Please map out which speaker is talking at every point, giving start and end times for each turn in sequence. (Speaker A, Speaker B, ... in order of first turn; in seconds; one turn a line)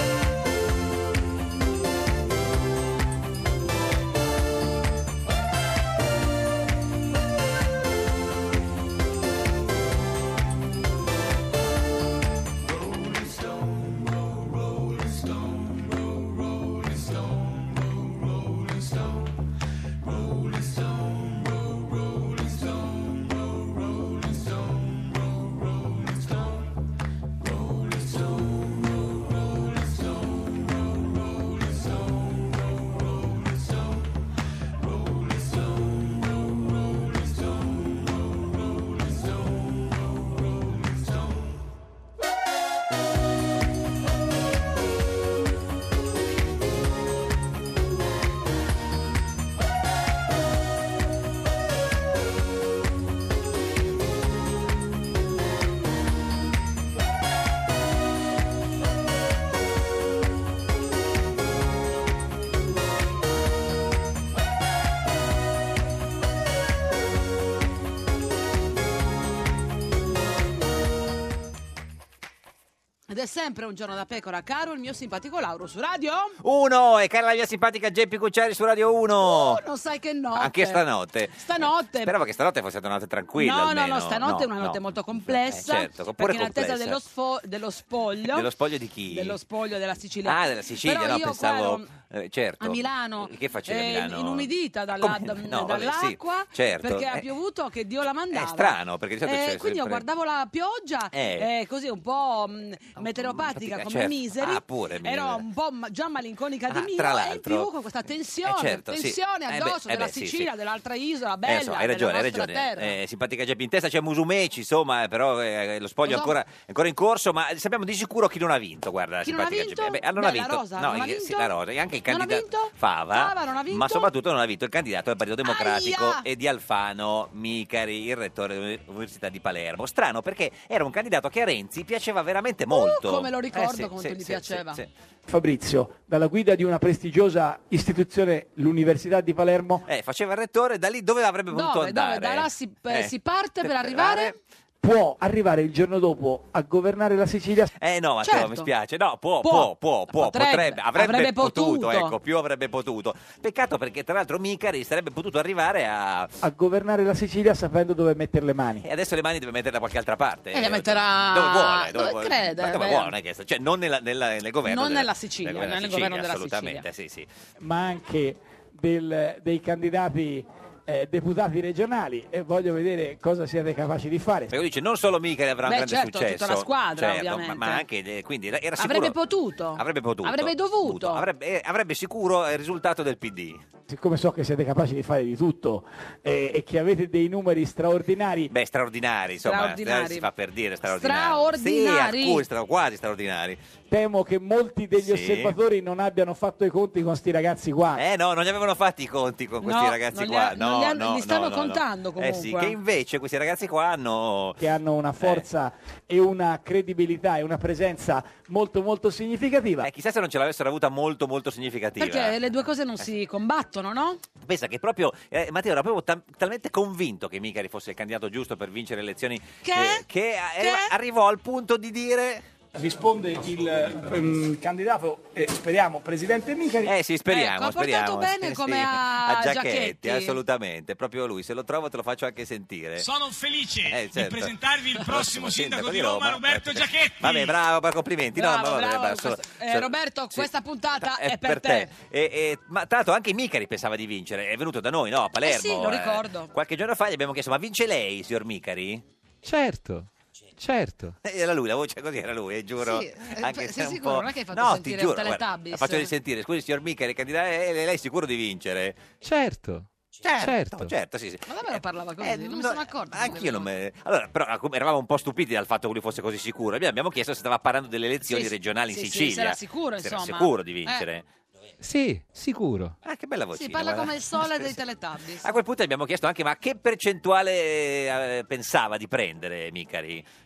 Speaker A: 73.1-76.4
Speaker B: 76.4-79.6
Speaker A: 79.2-80.8
Speaker B: 80.3-87.0
Speaker A: 81.4-82.1
Speaker A: 83.4-88.5
Speaker B: 88.3-89.4
Speaker A: 89.1-91.9
Speaker B: 90.3-97.3
Speaker A: 92.6-113.0
Speaker B: 98.3-100.0
Speaker B: 101.1-101.5
Speaker B: 103.0-105.4
Speaker B: 106.7-107.7
Speaker B: 108.4-110.5
Speaker B: 111.4-134.9
Speaker A: 116.1-116.3
Speaker A: 119.2-121.5
Speaker A: 122.1-124.1
Speaker A: 125.5-126.2
Speaker A: 132.7-134.8
Speaker C: 135.3-139.8
Speaker B: 139.9-143.1
Speaker A: 141.5-144.3
Speaker B: 143.6-144.3
Speaker C: 144.8-147.7
Speaker B: 147.8-156.3
Speaker A: 148.2-148.7
Speaker A: 149.4-152.1
Speaker C: 156.4-158.8
Speaker B: 158.8-167.3
Speaker A: 160.5-163.1
Speaker A: 164.7-166.8
Speaker C: 167.6-174.5
Speaker B: 174.5-179.2
Speaker A: 175.7-177.8
Speaker A: 178.8-181.2
Speaker B: 179.8-183.6
Speaker C: 183.9-188.5
Speaker B: 188.5-193.6
Speaker A: 189.4-190.3
Speaker A: 190.9-192.4
Speaker C: 193.9-198.0
Speaker B: 195.0-195.6
Speaker B: 197.9-204.6
Speaker A: 199.6-202.8
Speaker C: 204.6-209.9
Speaker B: 205.2-205.5
Speaker B: 209.8-212.4
Speaker A: 212.0-214.2
Speaker B: 214.4-222.5
Speaker A: 219.6-220.1
Speaker A: 220.6-220.9
Speaker C: 222.8-226.9
Speaker B: 226.8-233.1
Speaker A: 227.3-230.4
Speaker D: 233.0-237.6
Speaker B: 233.9-249.0
Speaker A: 238.3-241.9
Speaker A: 245.4-246.5
Speaker E: 249.4-251.2
Speaker B: 251.2-259.1
Speaker A: 252.8-256.1
Speaker E: 259.2-260.9
Speaker B: 260.2-271.2
Speaker A: 261.5-263.7
Speaker A: 268.3-271.0
Speaker E: 271.8-272.9
Speaker B: 273.0-274.8
Speaker A: 273.6-275.5
Speaker B: 275.4-280.2